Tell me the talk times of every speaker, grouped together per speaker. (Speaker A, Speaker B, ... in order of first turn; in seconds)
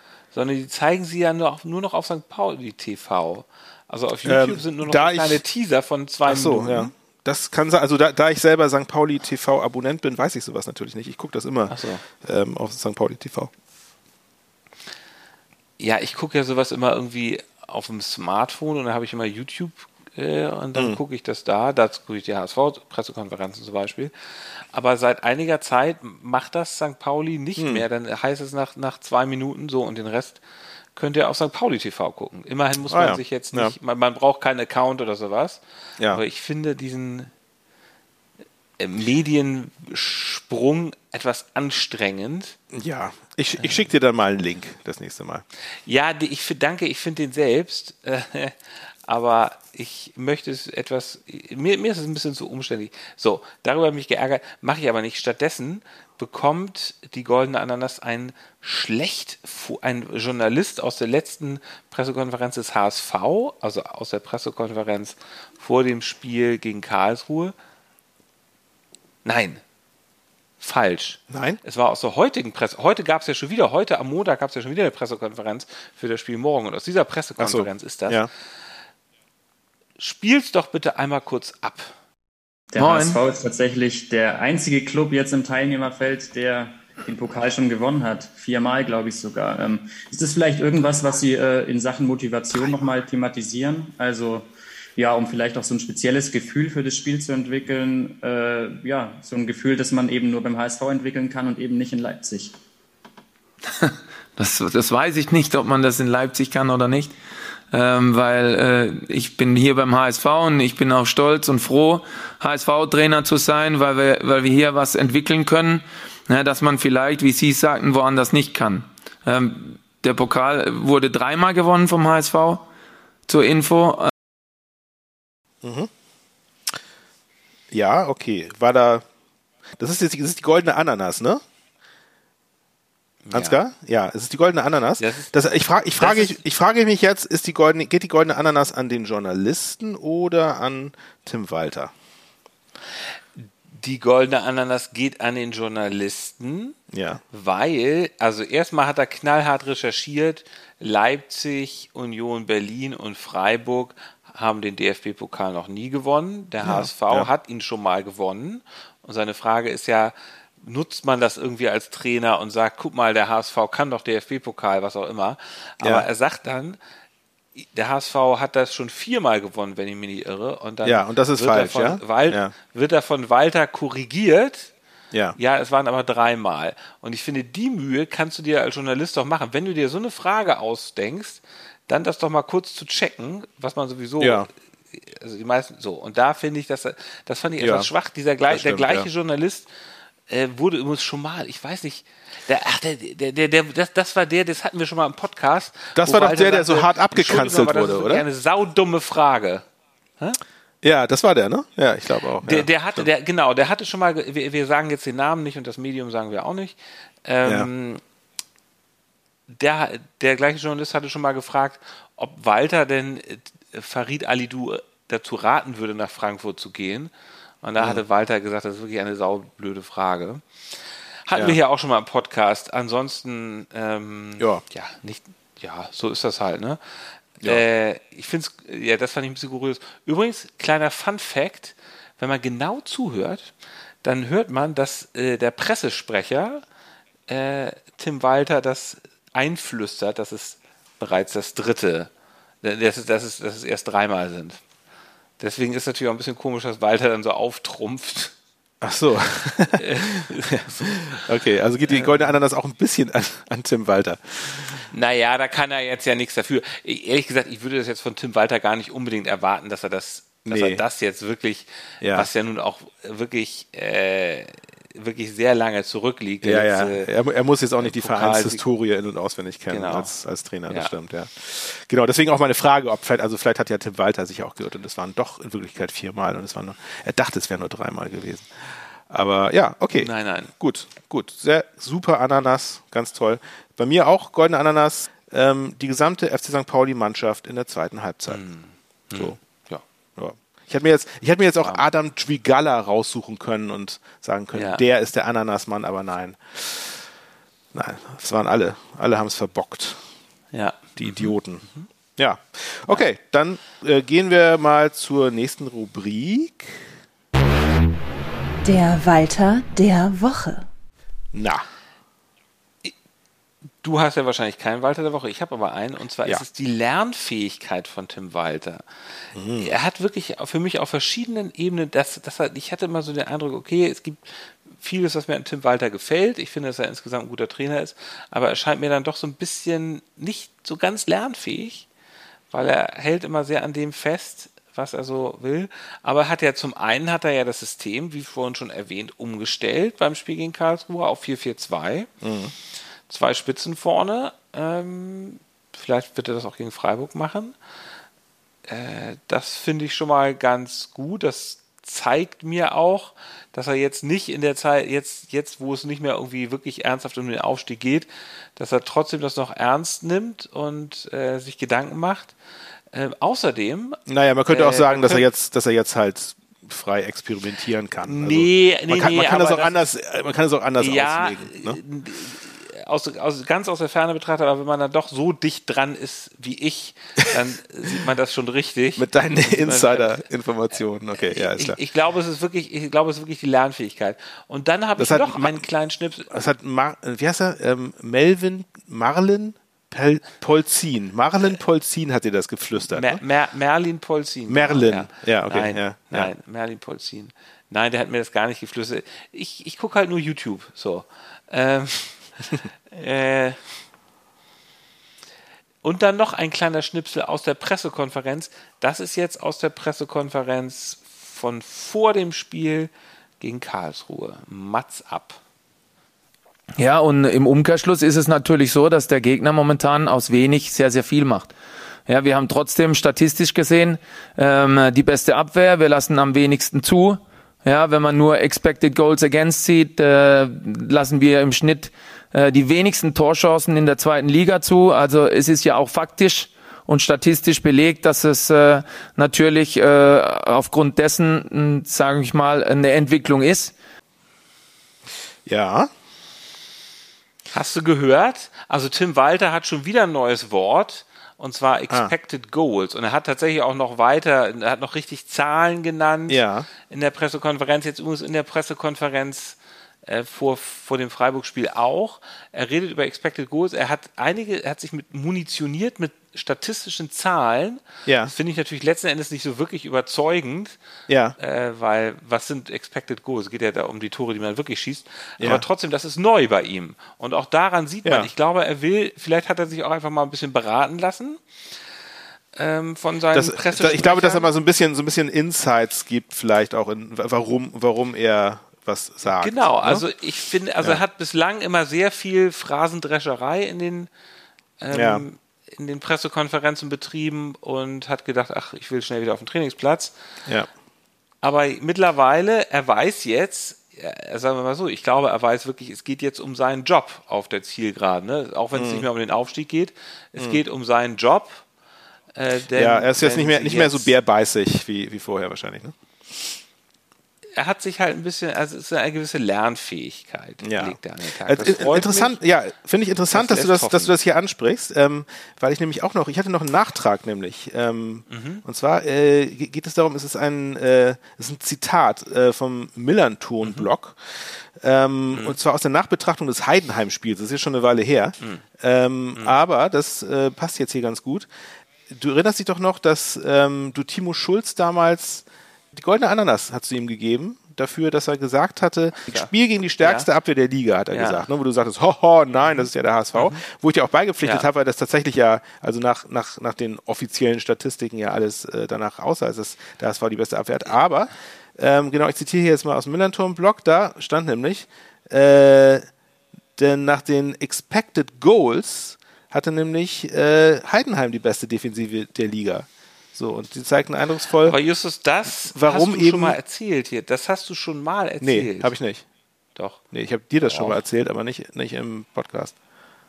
Speaker A: 0.3-6.9, 11.7-12.0, 15.8-24.1, 24.7-30.4, 30.9-35.6, 36.1-37.3, 38.8-42.6, 45.9-48.5, 49.1-67.5, 69.2-69.6, 70.6-78.2, 80.0-81.9, 133.2-133.6, 135.0-135.3, 136.0-136.4, 143.7-146.8, 147.3-166.8, 167.6-174.7, 175.4-189.7, 190.3-199.6, 202.4-208.0, 209.5-217.1, 217.6-220.4, 221.3-226.8, 227.4-233.5, 234.0-236.6, 237.3-242.1, 242.6-244.6, 245.4-248.3, 249.8-251.2, 251.9-252.2, 254.9-267.1, 267.8-268.6, 269.7-270.1, 279.9-280.5, 288.3-289.8, 294.5-294.8, 300.5-301.9, 313.8-318.8, 319.6-331.9, 332.5-342.1, 343.1-347.6, 348.7-362.3, 362.9-365.2, 368.1-369.8, 370.8-380.2, 381.3-386.3, 392.9-403.6, 405.8-415.4, 447.5-470.8, 471.4-481.4, 482.6-484.5, 489.4-494.1, 494.8-500.1, 501.4-511.6, 512.4-514.1, 517.5-522.4, 523.3-524.1, 528.3-528.6, 533.6-533.9, 550.0-550.3, 551.1-551.5, 553.3-553.6, 554.4-554.7, 574.6-578.9, 579.7-580.0, 580.6-581.0
Speaker B: 4.2-5.4, 6.3-13.5, 20.7-21.0, 27.6-27.8, 32.9-33.7, 42.7-45.4, 71.3-71.6, 77.4-78.3, 125.6-125.9, 127.7-129.0, 129.8-131.4, 133.3-141.9, 146.9-147.2, 156.6-157.3, 170.8-172.5, 175.1-175.4, 184.2-184.5, 187.6-187.9, 188.5-189.1, 195.9-198.2, 200.8-203.1, 248.8-254.9, 260.4-260.8, 262.0-262.3, 266.4-288.4, 290.1-297.0, 297.7-300.0, 300.9-301.6, 302.2-306.9, 311.3-311.6, 319.3-319.7, 342.2-342.5, 364.1-371.8, 379.0-381.8, 385.0-385.6, 386.3-393.2, 394.5-396.3, 445.4-445.9, 456.3-456.7, 468.1-468.3, 471.1-471.4, 483.3-490.1, 494.9-495.2, 508.7-509.1, 512.7-516.5, 520.6-541.5, 542.1-566.0, 566.8-574.8, 575.6-576.6, 578.4-579.2, 580.1-582.7
Speaker C: 82.7-102.5
Speaker D: 82.8-83.2, 103.8-107.1, 107.7-122.7, 123.3-124.1, 416.8-421.5, 422.1-443.7
Speaker E: 308.6-310.7